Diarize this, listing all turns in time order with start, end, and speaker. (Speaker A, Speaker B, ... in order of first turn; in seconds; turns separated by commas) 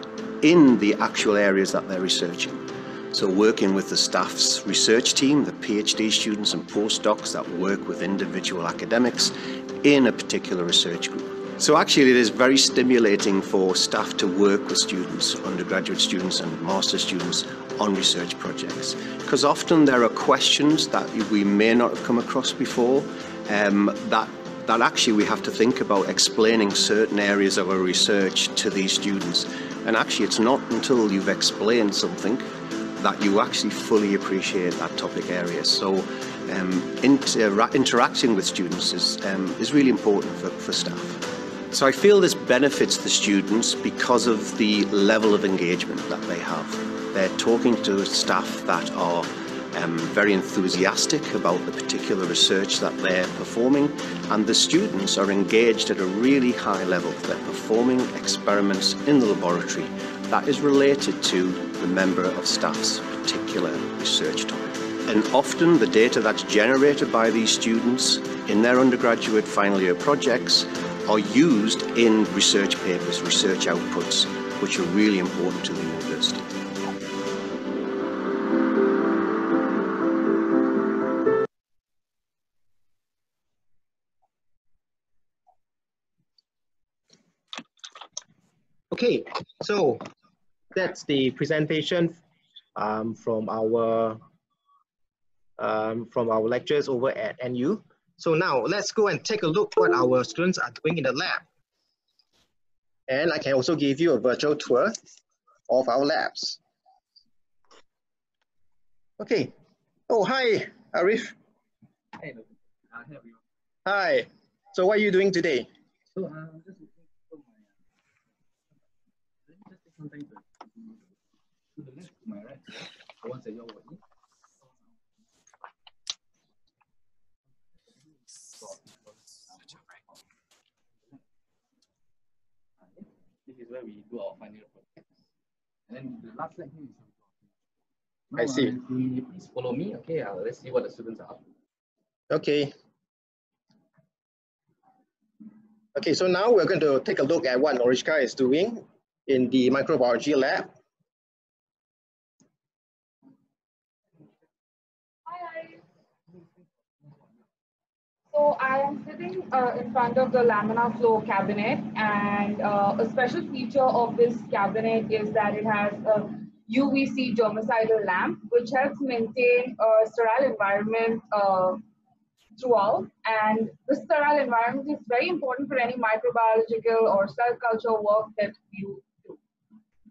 Speaker A: 0.4-76.5, Speaker B: 88.9-90.0, Speaker B: 90.7-92.2, Speaker B: 92.8-94.2, Speaker B: 95.6-101.5, Speaker B: 103.1-105.1, Speaker B: 105.7-106.6, Speaker B: 109.2-109.5, Speaker B: 110.1-111.3, Speaker C: 112.2-113.4, Speaker B: 113.9-115.7, Speaker C: 116.1-117.8, Speaker C: 119.5-121.0, Speaker C: 121.7-124.0, Speaker C: 128.5-130.2, Speaker C: 132.8-135.2, Speaker C: 135.9-137.5, Speaker C: 138.3-141.4, Speaker B: 138.4-138.7, Speaker B: 142.3-142.7, Speaker B: 145.9-150.7, Speaker D: 155.3-155.8, Speaker C: 157.0-157.3, Speaker D: 158.3-171.8, Speaker D: 172.6-179.4